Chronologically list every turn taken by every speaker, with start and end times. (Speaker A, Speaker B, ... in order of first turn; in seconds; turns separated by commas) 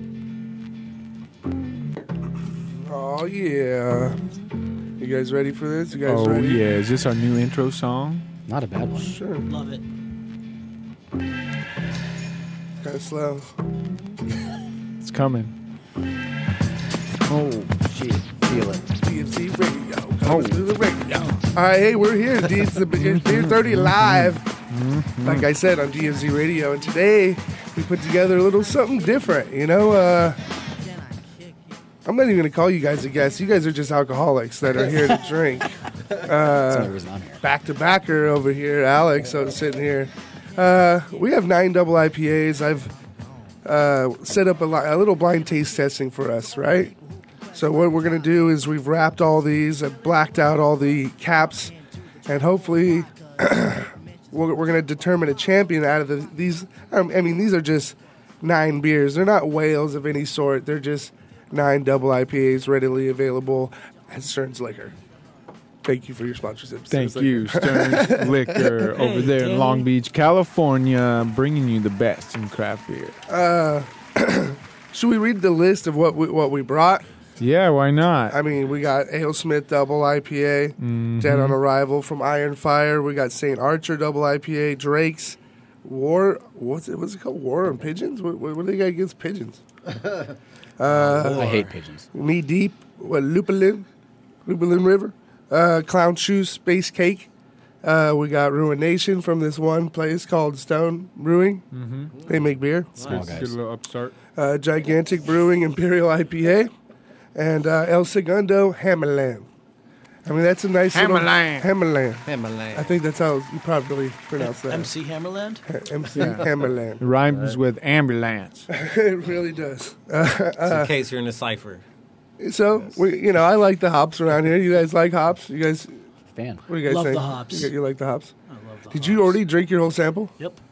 Speaker A: 2.9-4.2, Speaker A: 5.0-6.6, Speaker B: 6.0-8.2, Speaker C: 8.5-9.1, Speaker A: 9.0-9.5, Speaker D: 9.5-9.8, Speaker A: 12.8-13.5, Speaker B: 15.0-15.5, Speaker B: 17.3-18.9, Speaker A: 19.0-24.4, Speaker B: 20.2-20.7, Speaker B: 22.9-25.5, Speaker A: 25.2-30.4, Speaker A: 32.0-42.9, Speaker C: 36.7-37.4, Speaker A: 43.6-47.0, Speaker A: 47.5-51.7, Speaker A: 52.3-64.9, Speaker A: 65.8-68.7, Speaker B: 66.9-73.2, Speaker D: 68.9-69.9, Speaker A: 73.3-77.0, Speaker B: 77.4-78.3, Speaker A: 78.3-89.6, Speaker B: 80.8-81.6, Speaker A: 90.8-91.6, Speaker C: 90.9-92.1, Speaker E: 91.2-91.6, Speaker A: 92.1-93.8, Speaker A: 94.5-97.3, Speaker A: 97.8-101.7, Speaker B: 101.7-102.1, Speaker A: 102.2-103.1, Speaker B: 103.0-104.1, Speaker C: 103.1-103.5, Speaker A: 104.3-106.7, Speaker A: 107.3-109.5, Speaker A: 110.2-114.9, Speaker B: 110.9-111.7, Speaker E: 112.2-113.0, Speaker D: 114.4-115.6, Speaker A: 115.7-117.0, Speaker B: 116.1-116.4, Speaker B: 117.0-118.7, Speaker E: 117.2-117.6, Speaker A: 118.7-120.9, Speaker E: 120.6-121.8, Speaker A: 122.4-125.9, Speaker C: 126.3-126.6, Speaker A: 126.7-128.3, Speaker D: 126.8-127.7, Speaker D: 128.5-129.3, Speaker A: 128.9-130.3